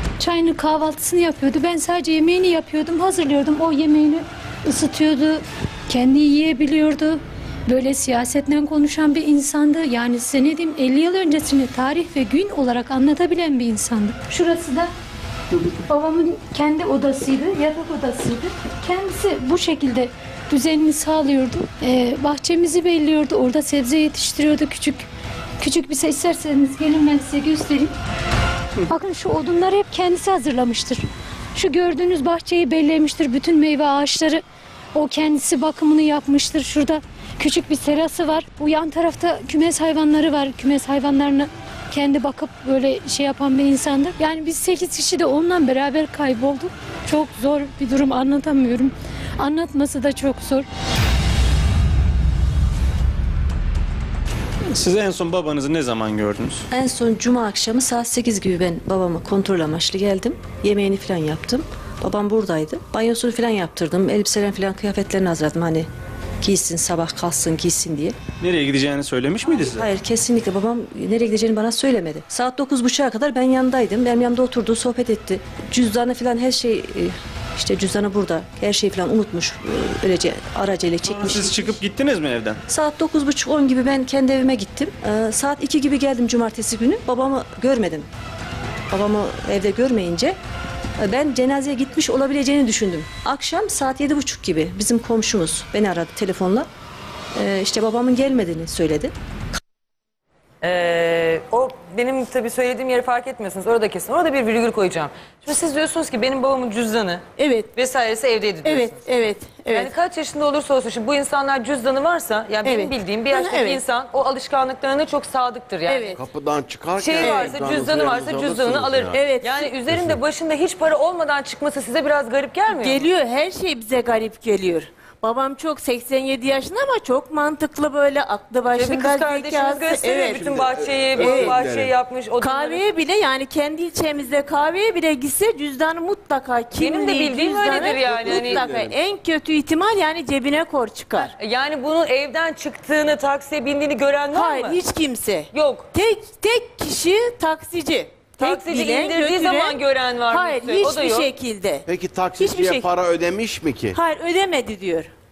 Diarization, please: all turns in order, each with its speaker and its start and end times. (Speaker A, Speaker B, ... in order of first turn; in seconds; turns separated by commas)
Speaker A: 0.2-14.9, Speaker A: 15.7-25.1, Speaker A: 25.6-27.9, Speaker A: 28.9-34.4, Speaker A: 35.0-50.7, Speaker B: 54.7-56.6, Speaker C: 56.7-65.9, Speaker C: 66.4-68.2, Speaker B: 68.4-69.9, Speaker C: 69.5-81.8, Speaker B: 81.0-82.6, Speaker C: 82.7-88.1, Speaker C: 88.9-90.4, Speaker C: 91.0-96.7, Speaker C: 97.3-99.1, Speaker D: 100.6-107.2, Speaker E: 107.4-107.7, Speaker D: 107.8-109.0, Speaker E: 108.6-109.9, Speaker D: 109.7-116.2, Speaker E: 112.7-113.8, Speaker E: 115.9-116.2, Speaker F: 116.2-119.2, Speaker D: 117.0-123.1, Speaker E: 117.2-117.6, Speaker E: 119.1-119.7, Speaker E: 122.7-130.6, Speaker D: 128.7-132.8, Speaker F: 130.5-131.9, Speaker E: 131.2-131.6, Speaker E: 132.4-141.3, Speaker D: 136.8-138.6, Speaker F: 137.7-138.9, Speaker D: 141.2-144.8, Speaker E: 144.3-151.8, Speaker D: 145.5-145.9, Speaker D: 148.4-151.3, Speaker F: 151.9-154.0, Speaker E: 152.4-152.9, Speaker E: 153.9-155.1